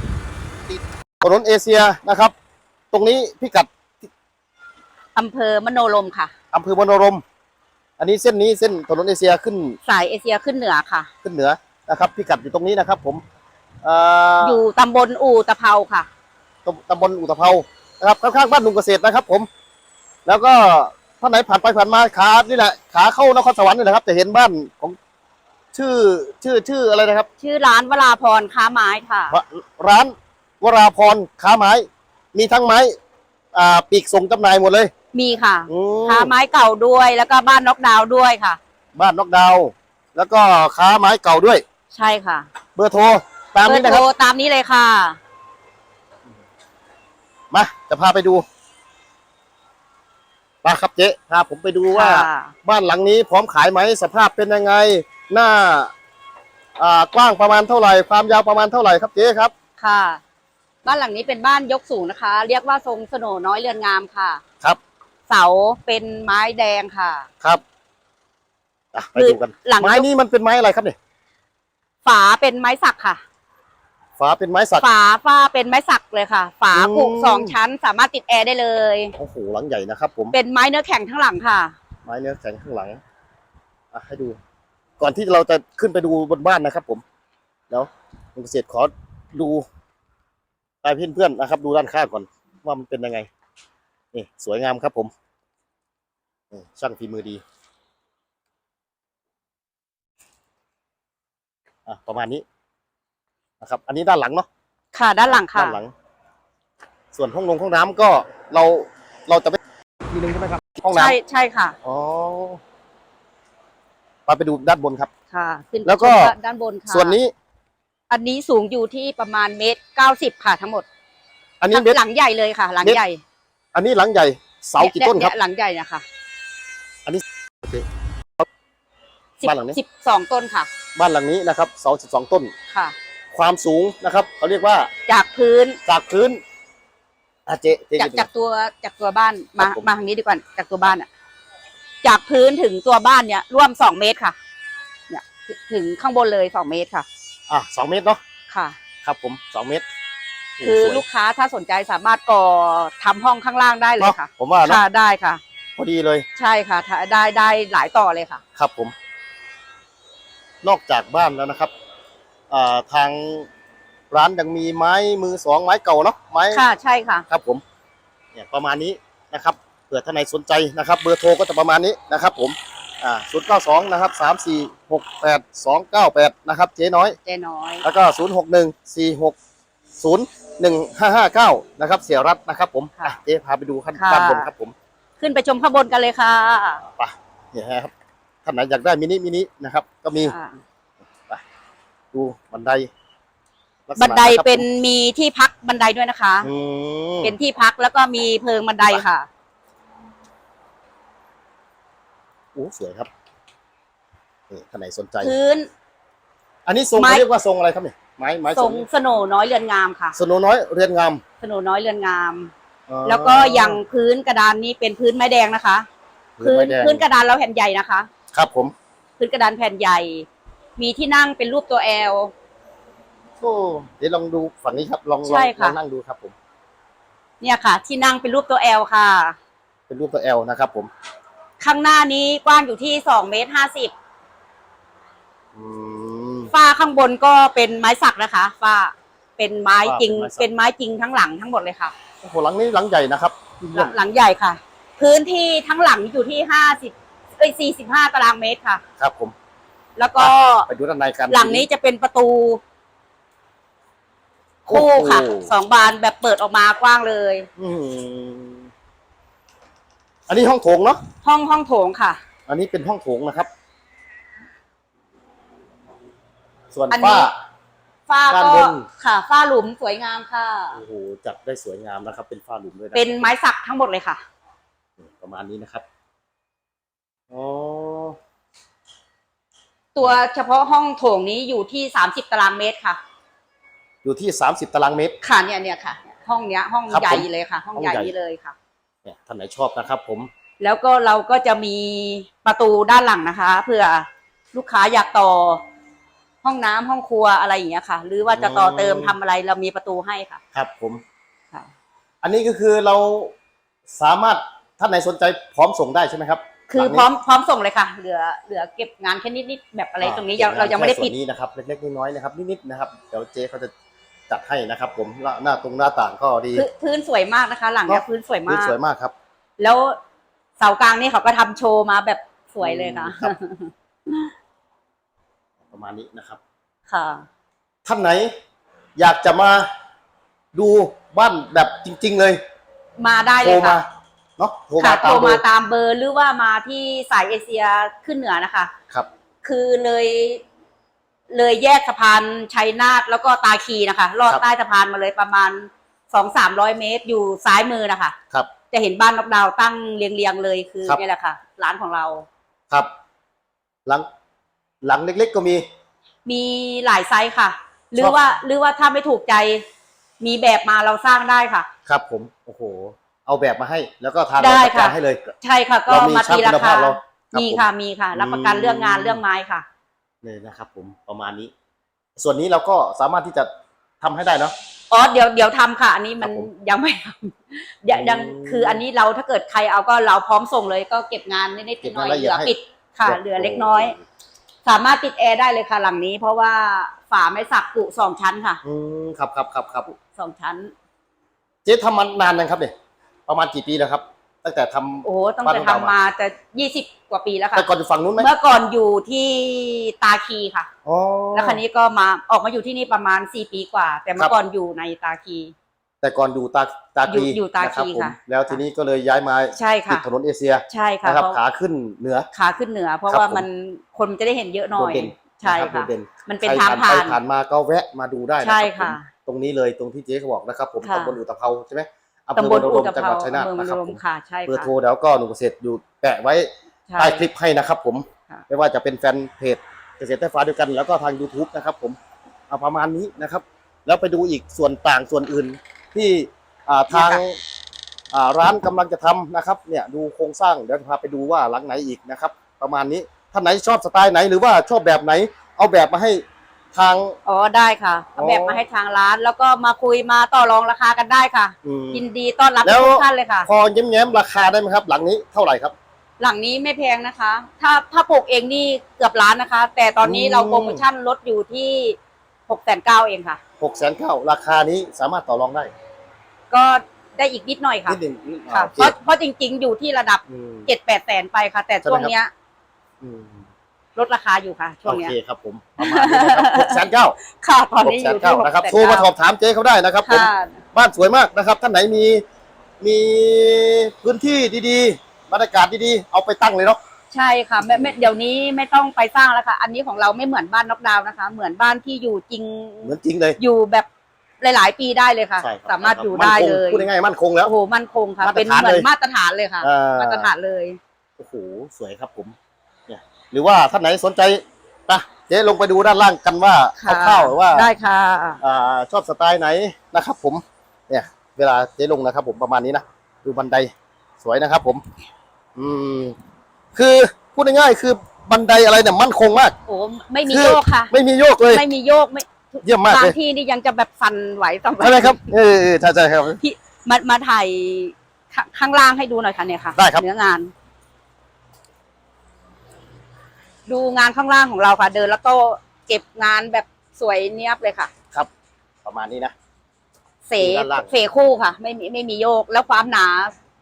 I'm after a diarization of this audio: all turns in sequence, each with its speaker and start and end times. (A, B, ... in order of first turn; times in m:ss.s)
0:00.6-0:02.3 A
0:02.9-0:03.7 A
0:05.1-0:06.3 B
0:06.5-0:07.2 A
0:08.0-0:09.8 A
0:09.8-0:11.1 B
0:11.2-0:13.2 A
0:13.8-0:14.6 A
0:14.4-0:16.1 B
0:16.6-0:19.5 A
0:20.2-0:25.0 A
0:25.7-0:27.3 A
0:27.4-0:29.3 B
0:29.3-0:33.0 A
0:33.5-0:34.9 A
0:35.1-0:38.6 B
0:35.7-0:36.3 A
0:38.9-0:41.6 A
0:41.9-0:42.5 B
0:42.8-0:44.1 A
0:43.6-0:45.2 B
0:47.5-0:48.4 A
0:50.6-0:55.9 A
0:51.9-0:52.5 B
0:56.8-0:59.5 A
0:59.8-1:00.2 B
1:00.8-1:04.4 B
1:05.3-1:07.3 B
1:08.9-1:11.0 A
1:09.2-1:10.0 B
1:12.0-1:13.2 B
1:14.2-1:14.8 A
1:14.8-1:19.1 B
1:16.7-1:17.6 A
1:19.2-1:20.3 A
1:20.3-1:21.7 B
1:22.0-1:23.0 A
1:23.9-1:24.4 A
1:25.0-1:27.0 A
1:27.7-1:29.6 A
1:30.8-1:33.3 A
1:34.1-1:35.1 A
1:36.5-1:37.4 A
1:41.8-1:42.4 A
1:43.6-1:44.5 A
1:44.9-1:45.8 B
1:45.3-1:45.9 A
1:47.1-1:49.6 A
1:50.1-1:51.1 A
1:50.8-1:51.8 B
1:51.8-1:52.6 A
1:54.3-1:55.1 A
1:55.3-1:57.2 B
1:55.8-1:56.3 A
1:56.9-1:57.3 A
1:58.1-2:00.8 B
2:01.6-2:02.0 A
2:01.7-2:03.2 B
2:03.7-2:05.3 A
2:04.8-2:06.0 B
2:07.0-2:07.8 A
2:09.4-2:10.7 B
2:09.4-2:09.8 A
2:10.9-2:12.5 A
2:12.7-2:12.9 B
2:13.3-2:14.9 A
2:15.1-2:15.8 B
2:15.8-2:16.4 A
2:17.4-2:18.3 A
2:18.0-2:21.1 B
2:19.6-2:19.9 A
2:22.0-2:24.4 B
2:25.1-2:27.0 B
2:27.5-2:28.2 A
2:28.5-2:28.8 B
2:29.0-2:29.8 A
2:30.6-2:31.0 A
2:30.6-2:35.4 B
2:34.0-2:34.8 A
2:35.8-2:36.2 A
2:36.4-2:38.4 B
2:38.6-2:38.9 A
2:40.6-2:41.7 A
2:42.5-2:43.5 A
2:44.1-2:46.6 A
2:46.5-2:47.2 B
2:47.3-2:47.6 A
2:48.3-2:57.2 A
2:57.2-2:57.8 B
2:57.8-2:59.4 A
3:00.0-3:04.7 A
3:04.0-3:04.5 B
3:05.2-3:06.8 B
3:07.0-3:07.9 A
3:08.4-3:10.3 A
3:10.2-3:10.6 B
3:12.1-3:12.9 A
3:13.9-3:14.6 A
3:14.0-3:16.5 B
3:16.4-3:17.4 A
3:17.2-3:19.3 B
3:22.5-3:23.1 A
3:24.5-3:25.3 A
3:25.2-3:25.7 B
3:26.6-3:28.8 A
3:26.9-3:27.2 B
3:28.5-3:30.2 B
3:30.1-3:31.2 A
3:31.4-3:32.5 B
3:32.9-3:33.8 A
3:33.0-3:35.8 B
3:36.4-3:37.0 A
3:36.4-3:38.1 B
3:38.3-3:38.7 A
3:39.2-3:42.3 B
3:43.4-3:46.3 A
3:45.2-3:45.8 B
3:47.4-3:49.4 B
3:49.9-3:50.9 A
3:51.6-3:53.9 B
3:55.5-3:56.5 A
3:56.5-4:01.9 B
3:59.8-4:00.5 A
4:02.2-4:04.0 A
4:03.6-4:08.8 B
4:09.0-4:09.3 A
4:10.0-4:10.7 B
4:10.2-4:11.7 A
4:11.3-4:12.6 B
4:14.6-4:17.5 B
4:14.7-4:15.5 A
4:17.6-4:18.7 A
4:20.3-4:21.0 A
4:21.2-4:22.2 B
4:22.5-4:23.5 A
4:26.7-4:27.3 A
4:26.9-4:27.3 B
4:28.1-4:30.8 B
4:28.3-4:28.9 A
4:30.7-4:33.3 A
4:32.9-4:34.2 B
4:35.0-4:35.8 A
4:37.3-4:38.2 A
4:39.9-4:43.0 B
4:44.0-4:45.2 A
4:45.2-4:48.5 B
4:46.9-4:48.1 A
4:49.0-4:50.3 A
4:50.6-4:55.6 B
4:56.4-5:00.4 B
4:58.3-4:59.2 A
5:00.5-5:01.0 A
5:02.2-5:03.3 A
5:03.9-5:07.1 A
5:06.7-5:11.1 B
5:10.0-5:13.7 A
5:14.3-5:16.6 A
5:16.5-5:18.7 B
5:17.9-5:19.1 A
5:19.6-5:20.0 B
5:20.6-5:24.3 B
5:22.6-5:23.3 A
5:25.7-5:26.4 A
5:26.9-5:27.2 B
5:27.8-5:28.3 A
5:29.0-5:29.7 A
5:30.5-5:32.4 A
5:33.0-5:33.8 B
5:33.4-5:35.4 A
5:34.8-5:38.7 B
5:39.4-5:40.4 B
5:41.3-5:48.1 B
5:48.7-5:52.2 B
5:54.8-5:55.6 A
5:56.2-5:59.6 B
6:00.2-6:01.7 B
6:01.9-6:05.2 A
6:04.4-6:09.6 B
6:05.9-6:09.2 A
6:10.2-6:11.5 A
6:12.2-6:13.5 A
6:14.0-6:14.5 A
6:14.9-6:23.9 B
6:16.2-6:16.5 A
6:17.9-6:18.8 A
6:21.8-6:22.5 A
6:23.0-6:24.0 A
6:24.6-6:28.6 B
6:28.6-6:29.9 A
6:29.9-6:30.7 B
6:31.6-6:32.7 A
6:33.3-6:35.9 A
6:35.0-6:40.7 B
6:37.5-6:38.3 A
6:40.8-6:41.6 A
6:41.3-6:45.5 B
6:46.0-6:52.3 A
6:47.1-6:48.6 B
6:49.5-6:50.0 B
6:50.7-6:51.4 B
6:52.3-6:57.2 B
6:53.1-6:53.4 A
6:54.7-7:12.0 A
6:58.4-6:59.1 B
7:00.8-7:01.2 B
7:02.4-7:04.7 B
7:06.9-7:07.2 B
7:12.5-7:17.4 A
7:16.9-7:17.2 B
7:18.1-7:26.2 A
7:26.7-7:27.2 A
7:27.2-7:33.5 B
7:28.2-7:28.6 A
7:31.6-7:32.0 A
7:32.6-7:35.7 A
7:36.2-7:43.4 B
7:40.0-7:40.8 A
7:43.6-7:45.7 A
7:46.5-7:48.0 B
7:47.8-7:48.9 A
7:48.5-7:52.3 B
7:50.3-7:50.7 A
7:51.8-7:52.1 A
7:53.0-7:53.5 A
7:54.0-7:55.1 B
7:54.8-7:57.2 A
7:55.8-7:56.8 B
7:57.4-7:59.1 B
7:57.8-8:02.2 A
8:00.0-8:00.6 B
8:02.8-8:06.8 A
8:07.1-8:13.9 B
8:07.6-8:08.0 A
8:12.8-8:13.4 A
8:14.4-8:16.9 B
8:15.4-8:17.5 A
8:17.4-8:20.8 B
8:18.2-8:18.9 A
8:19.6-8:20.3 A
8:21.2-8:22.3 A
8:22.9-8:27.7 A
8:26.8-8:28.4 B
8:28.4-8:34.8 A
8:35.6-8:36.2 A
8:36.7-8:39.5 A
8:39.7-8:40.9 B
8:40.2-8:41.6 A
8:41.5-8:45.3 B
8:42.6-8:43.2 A
8:44.8-8:46.4 A
8:46.4-8:50.5 B
8:49.8-8:50.0 A
8:53.7-8:57.9 B
8:58.8-8:59.3 A
9:00.2-9:03.3 B
9:00.4-9:00.9 A